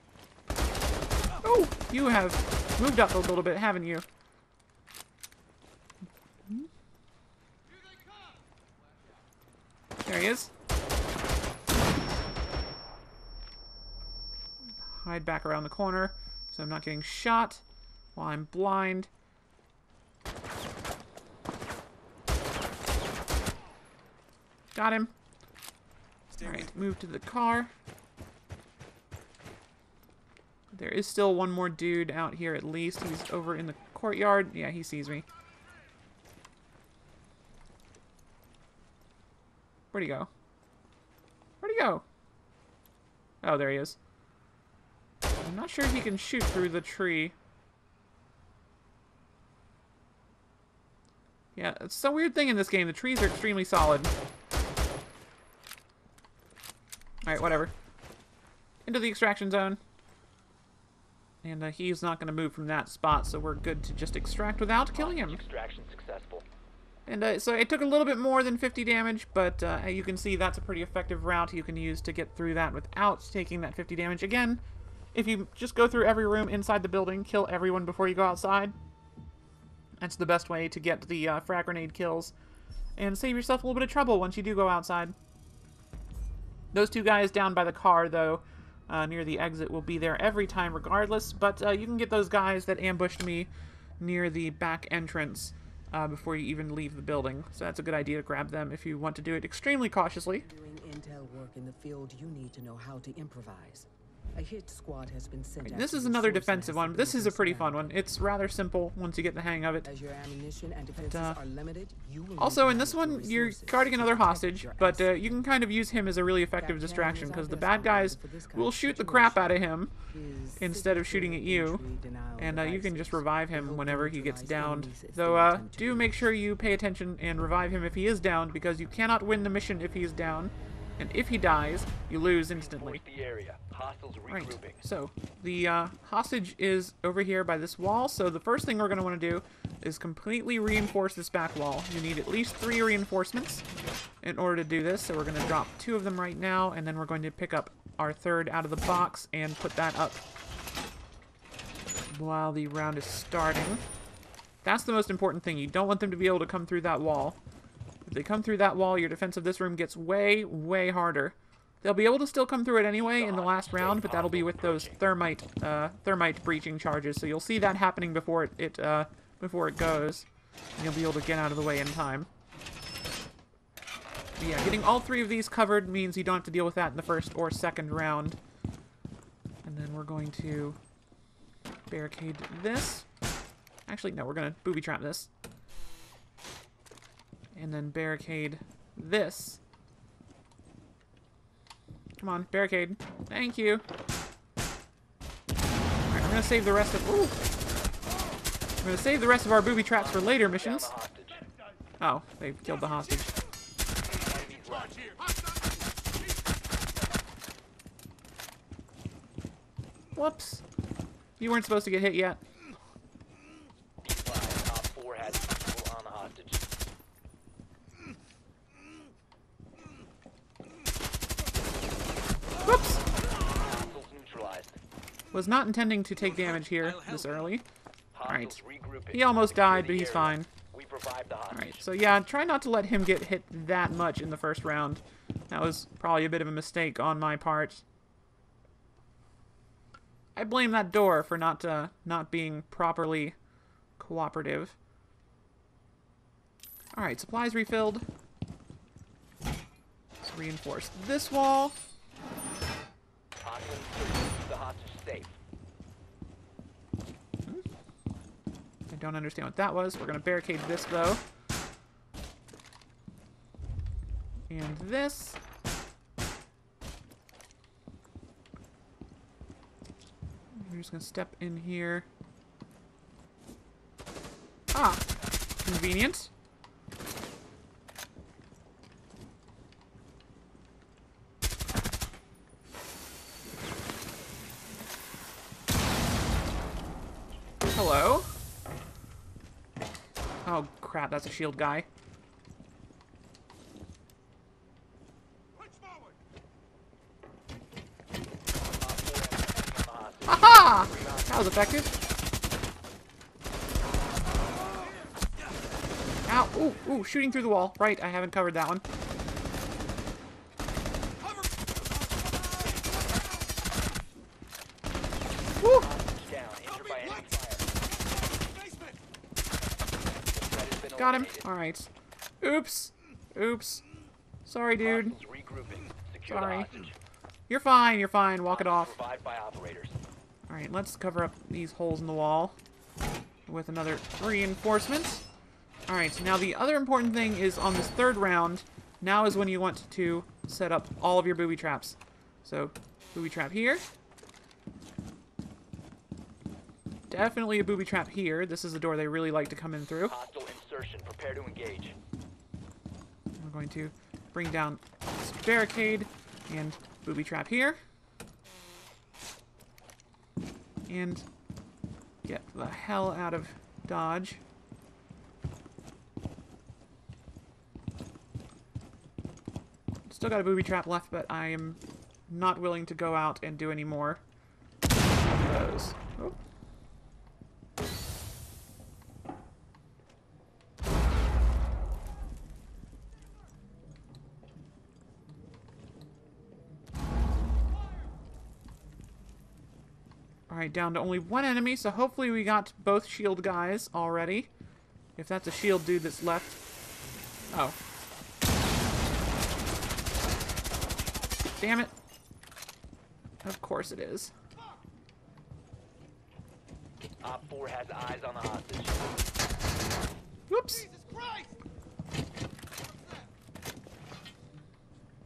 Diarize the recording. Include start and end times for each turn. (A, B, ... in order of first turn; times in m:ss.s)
0:01.4-0:04.0 A
0:10.0-0:10.5 A
0:14.8-0:17.6 A
0:18.1-0:19.1 A
0:24.7-0:25.1 A
0:26.3-0:27.7 A
0:30.7-0:35.2 A
0:39.9-0:40.3 A
0:41.6-0:42.0 A
0:43.4-0:44.0 A
0:45.4-0:47.3 A
0:51.5-0:54.1 A
0:57.2-0:57.7 A
0:58.8-0:59.8 A
1:01.4-1:05.4 A
1:04.9-1:06.4 B
1:07.1-1:14.6 A
1:15.1-1:18.7 A
1:20.0-1:22.3 A
1:23.0-1:25.1 A
1:26.7-1:40.4 A
1:40.4-1:48.1 C
1:45.6-1:49.9 A
1:49.8-1:55.5 C
1:51.1-1:51.4 A
1:52.4-1:59.9 A
1:56.5-2:06.3 C
2:00.6-2:01.8 A
2:02.4-2:13.0 A
2:12.5-2:14.8 B
2:14.3-2:23.6 A
2:24.2-2:30.2 A
2:32.1-2:33.8 A
2:34.6-2:37.4 A
2:38.0-2:52.3 A
2:43.0-2:45.0 B
2:54.4-2:58.4 A
2:59.6-3:00.8 A
3:01.9-3:03.1 A
3:03.9-3:05.3 A
3:07.5-3:09.6 A
3:12.2-3:13.8 A
3:16.1-3:17.4 A
3:18.8-3:20.9 A
3:19.8-3:21.4 B
3:22.0-3:23.3 A
3:24.1-3:25.2 B
3:24.3-3:26.2 D
3:30.1-3:30.6 A
3:31.4-3:32.4 A
3:34.0-3:36.6 B
3:42.6-3:43.0 A
3:43.4-3:44.8 B
3:45.3-3:47.6 A
3:46.6-3:47.3 D
3:48.1-3:51.8 B
3:48.2-3:50.5 A
3:51.5-3:57.8 A
4:00.4-4:03.4 A
4:04.0-4:04.8 A
4:06.9-4:08.0 A
4:10.2-4:11.8 A
4:13.4-4:15.4 B
4:18.9-4:21.2 A
4:24.5-4:25.4 A
4:30.6-4:32.1 A
4:34.7-4:35.0 A
4:35.6-4:36.3 A
4:47.7-4:48.3 A
4:50.4-4:51.9 A
4:58.6-5:01.7 B
5:00.3-5:01.9 A
5:06.2-5:08.8 A
5:11.2-5:13.7 D
5:15.6-5:15.9 A
5:15.6-5:17.7 B
5:16.7-5:19.0 D
5:20.3-5:21.5 B
5:20.9-5:21.9 A
5:22.4-5:23.8 A
5:24.4-5:25.2 A
5:24.8-5:26.9 B
5:26.3-5:26.7 A
5:27.5-5:29.0 A
5:28.5-5:30.0 B
5:30.5-5:32.6 A
5:33.5-5:35.2 A
5:35.9-5:43.8 A
5:47.1-5:50.1 A
5:50.0-5:52.0 B
5:53.4-5:57.8 A
6:00.9-6:01.2 A
6:02.2-6:04.4 A
6:10.1-6:14.2 A
6:15.2-6:16.4 A
6:30.5-6:34.5 A
6:35.2-6:36.6 A
6:37.5-6:37.7 A
6:41.6-6:41.9 A
6:43.4-6:44.3 A
6:47.2-6:49.1 B
6:50.5-6:50.9 A
6:50.7-6:51.6 D